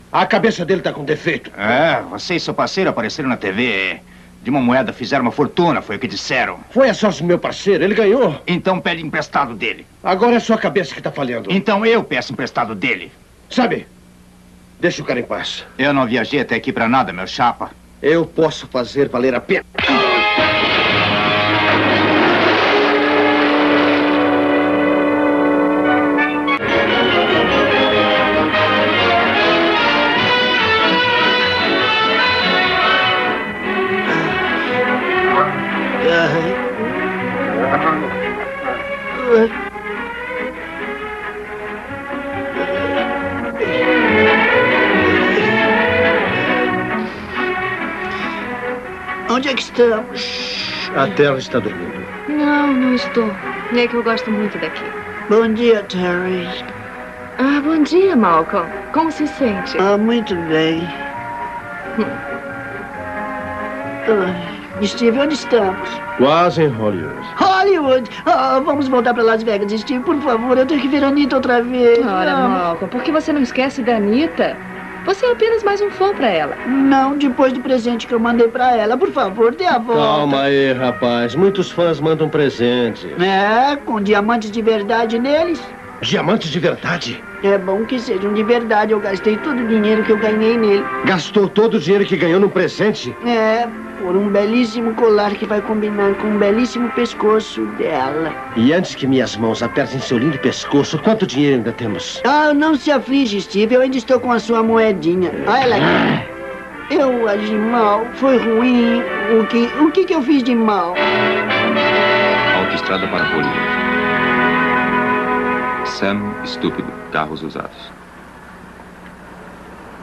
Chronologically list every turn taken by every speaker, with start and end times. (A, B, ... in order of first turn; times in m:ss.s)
0:00.1-0:01.6 A
0:01.6-0:06.6 B
0:06.7-0:08.4 A
0:08.5-0:09.9 B
0:10.0-0:11.6 A
0:11.5-0:13.1 B
0:13.5-0:13.9 A
0:14.8-0:15.7 A
0:15.8-0:17.7 B
0:18.0-0:19.7 A
0:36.0-0:36.6 C
0:39.1-0:39.5 C
0:49.3-0:50.8 C
0:50.9-0:52.1 A
0:52.3-0:55.0 D
0:55.3-0:56.6 C
0:57.4-0:59.9 D
0:59.8-1:00.9 C
1:04.1-1:06.0 C
1:06.2-1:07.3 A
1:07.4-1:12.6 C
1:12.0-1:16.6 D
1:16.7-1:20.4 C
1:19.9-1:23.3 A
1:23.2-1:25.7 C
1:26.0-1:27.2 A
1:27.4-1:30.9 C
1:31.0-1:33.2 A
1:33.2-1:38.4 C
1:38.6-1:42.2 A
1:42.2-1:46.2 C
1:46.9-1:51.0 C
1:52.5-1:53.8 E
1:55.8-1:57.9 E